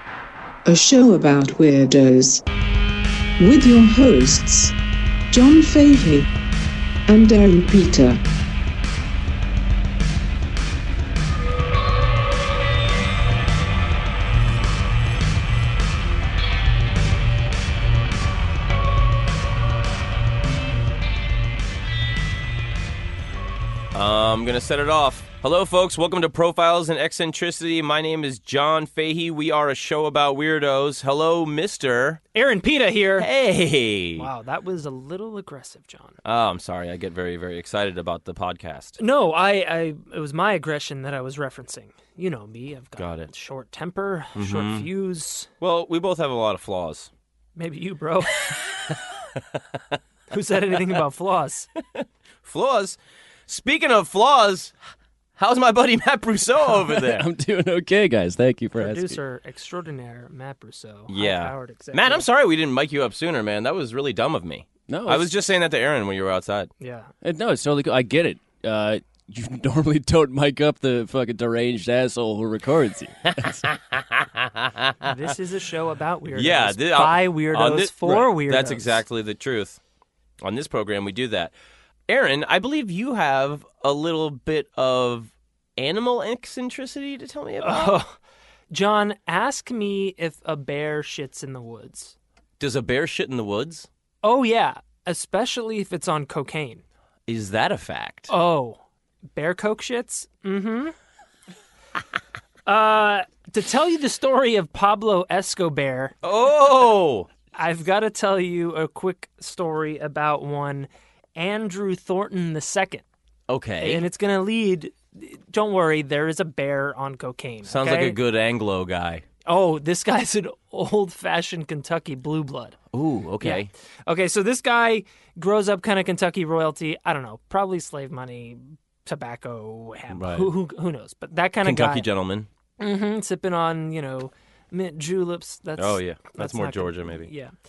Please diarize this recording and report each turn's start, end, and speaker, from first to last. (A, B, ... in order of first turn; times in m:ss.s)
0:00.6-0:02.4 A
0:03.4-0:04.7 A
0:05.3-0:06.3 A
0:07.1-0:08.2 A
0:23.9-0:32.2 B
0:32.3-0:33.3 C
0:33.2-0:34.3 B
0:34.2-0:36.2 C
0:36.2-0:39.0 B
0:39.0-0:45.5 C
0:43.0-0:43.3 B
0:44.3-0:44.9 B
0:45.6-0:47.1 B
0:47.6-0:48.5 C
0:48.5-0:50.0 B
0:50.3-0:51.7 C
0:51.9-0:54.7 B
0:55.4-0:57.3 B
0:56.8-0:59.2 D
0:58.8-1:02.2 C
1:01.1-1:06.7 B
1:04.9-1:05.3 D
1:06.8-1:07.1 C
1:07.2-1:13.7 D
1:13.7-1:15.1 B
1:15.0-1:19.0 C
1:16.3-1:19.8 B
1:20.4-1:21.5 B
1:22.1-1:28.0 B
1:27.6-1:28.2 C
1:28.7-1:32.1 C
1:32.6-1:33.9 B
1:34.2-1:36.8 C
1:37.3-1:38.3 B
1:38.3-1:38.8 C
1:39.3-1:40.9 C
1:42.6-1:46.1 C
1:46.2-1:47.3 B
1:47.5-1:53.0 C
1:53.5-1:54.0 B
1:53.8-1:58.2 C
1:57.6-1:59.2 B
1:59.5-2:02.8 C
2:02.9-2:03.7 B
2:03.4-2:12.0 C
2:10.1-2:10.5 B
2:11.6-2:12.5 B
2:12.8-2:17.5 C
2:15.8-2:17.3 B